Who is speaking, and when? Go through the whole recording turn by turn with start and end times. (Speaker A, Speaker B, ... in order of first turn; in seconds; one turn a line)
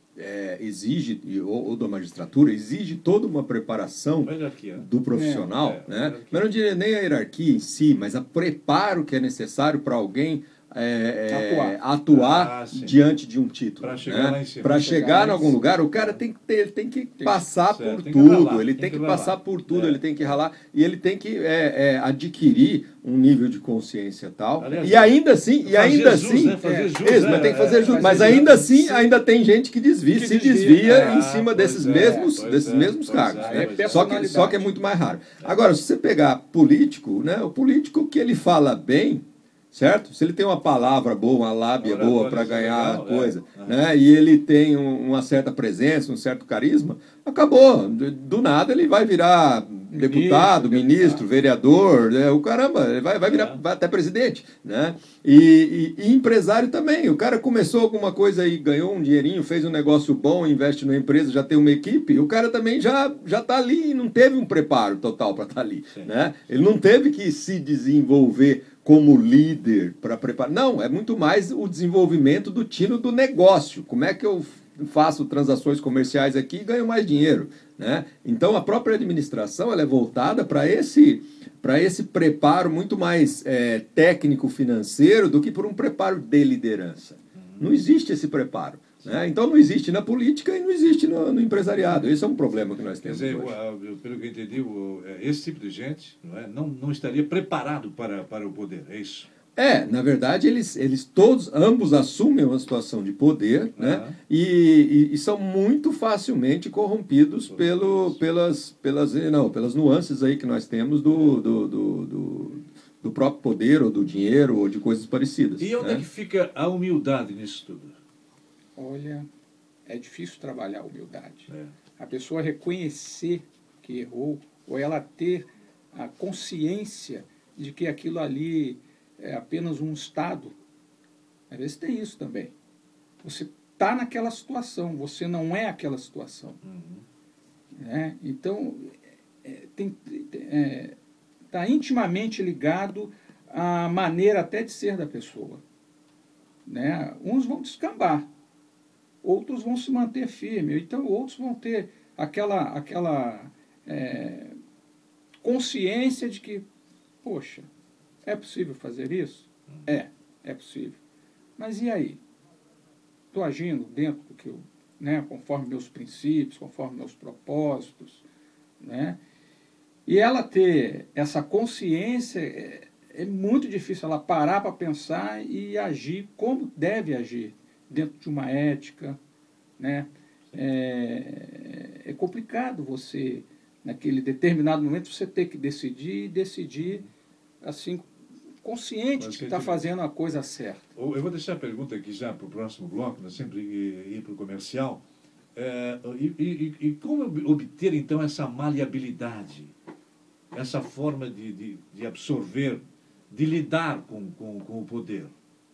Speaker A: 0.1-93.5
Speaker B: 4.2-4.9
Speaker C: 5.1-5.5
Speaker B: 5.4-6.5
Speaker C: 11.3-11.8
Speaker B: 12.1-13.0
Speaker B: 13.8-15.3
Speaker C: 14.7-15.6
Speaker B: 15.9-16.2
Speaker B: 17.2-20.2
Speaker B: 24.6-28.5
Speaker C: 26.6-29.2
Speaker C: 30.1-31.2
Speaker B: 30.6-34.1
Speaker C: 32.0-32.3
Speaker C: 33.4-34.7
Speaker B: 41.8-43.8
Speaker C: 49.9-51.2
Speaker B: 53.3-53.6
Speaker B: 87.3-87.7
Speaker B: 93.0-99.3
Speaker A: 99.5-116.0
Speaker B: 103.8-104.2
Speaker B: 107.5-108.2
Speaker B: 115.6-117.9
Speaker C: 118.8-119.3
Speaker C: 119.9-130.5
Speaker C: 131.5-132.5
Speaker C: 133.2-136.6
Speaker B: 136.6-137.0
Speaker C: 137.8-140.9
Speaker C: 141.5-145.6
Speaker C: 146.7-148.3
Speaker C: 149.2-154.6
Speaker C: 155.4-156.6
Speaker C: 157.2-157.7
Speaker C: 158.2-161.0
Speaker C: 161.6-162.2
Speaker C: 163.3-168.2
Speaker C: 168.8-169.2
Speaker C: 170.1-179.2
Speaker C: 179.8-187.0
Speaker C: 187.6-188.1
Speaker C: 188.6-190.8
Speaker B: 189.2-189.9
Speaker B: 190.9-195.0
Speaker B: 195.5-199.7
Speaker B: 200.5-205.3